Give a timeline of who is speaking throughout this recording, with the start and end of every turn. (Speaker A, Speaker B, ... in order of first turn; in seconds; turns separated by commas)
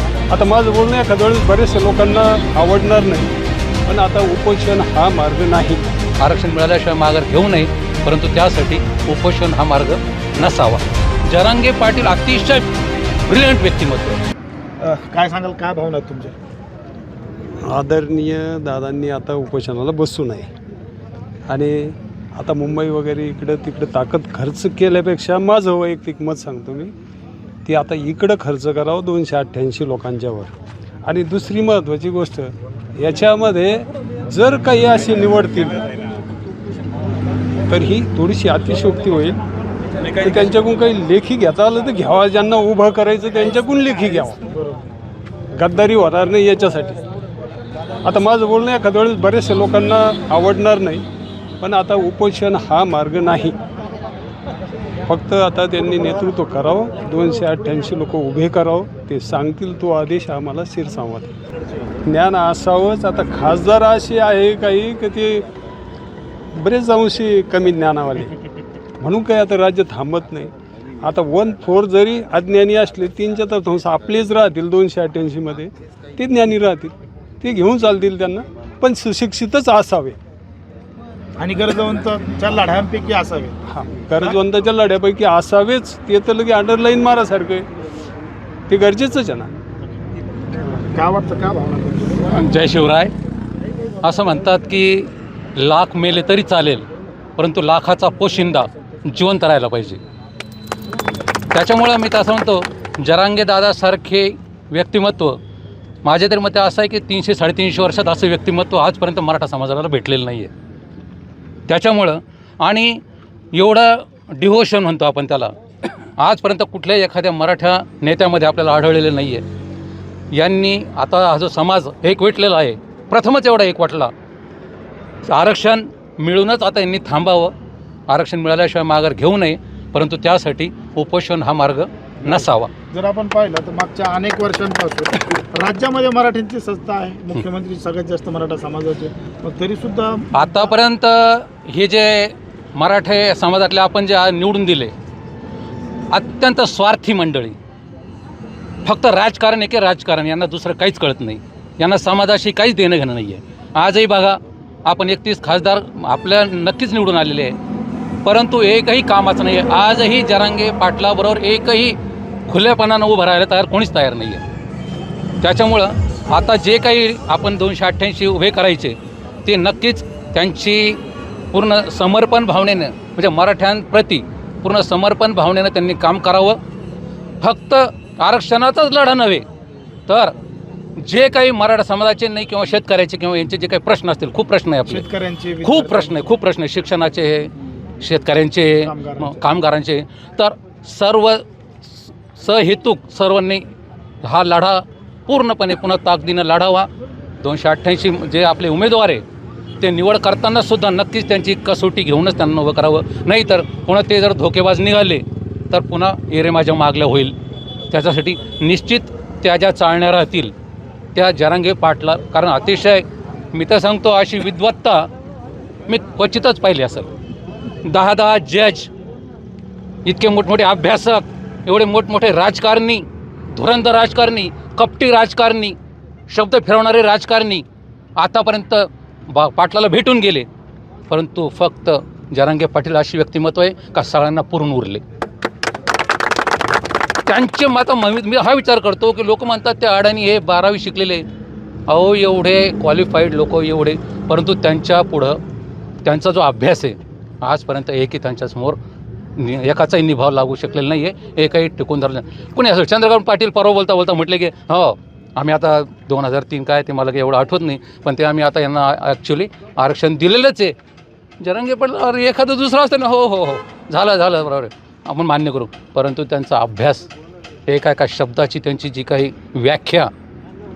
Speaker A: 0.3-5.9, Speaker B: 6.2-12.7, Speaker B: 13.2-14.2, Speaker C: 14.8-16.4, Speaker A: 17.6-20.5, Speaker A: 21.5-26.9, Speaker A: 27.6-30.5, Speaker A: 31.1-35.8, Speaker A: 37.7-39.4, Speaker A: 40.1-44.4, Speaker A: 45.6-47.0, Speaker A: 48.0-51.0, Speaker A: 51.6-53.6, Speaker A: 55.1-61.3, Speaker A: 62.0-65.5, Speaker A: 66.5-68.3, Speaker A: 69.0-80.2, Speaker C: 81.4-83.6, Speaker A: 83.7-87.7, Speaker A: 88.7-89.5, Speaker C: 90.8-92.3, Speaker B: 92.3-93.1, Speaker B: 94.0-96.8, Speaker B: 97.4-100.0, Speaker B: 101.5-105.4, Speaker B: 106.0-110.5, Speaker B: 111.7-113.0, Speaker B: 113.5-119.4, Speaker B: 120.3-124.1, Speaker B: 125.3-127.5, Speaker B: 128.1-132.7, Speaker C: 132.9-140.3, Speaker B: 140.3-144.9, Speaker B: 146.1-147.6, Speaker B: 148.8-157.6, Speaker B: 158.2-164.4, Speaker B: 165.4-171.0, Speaker B: 171.5-176.6, Speaker B: 177.4-179.5, Speaker B: 180.1-180.3, Speaker B: 181.0-185.1, Speaker C: 184.9-186.1, Speaker B: 185.6-193.6, Speaker C: 188.8-189.4, Speaker B: 194.2-196.9, Speaker B: 197.4-199.2, Speaker B: 199.8-207.3, Speaker B: 207.9-210.5, Speaker B: 211.2-215.1, Speaker B: 215.9-217.1, Speaker B: 217.8-218.9, Speaker B: 220.1-225.8, Speaker B: 226.3-227.7, Speaker B: 228.2-230.5, Speaker B: 231.1-235.0, Speaker B: 237.2-241.2, Speaker B: 241.9-245.4, Speaker B: 246.1-248.8, Speaker B: 249.4-260.8, Speaker B: 261.4-267.1, Speaker B: 267.7-270.1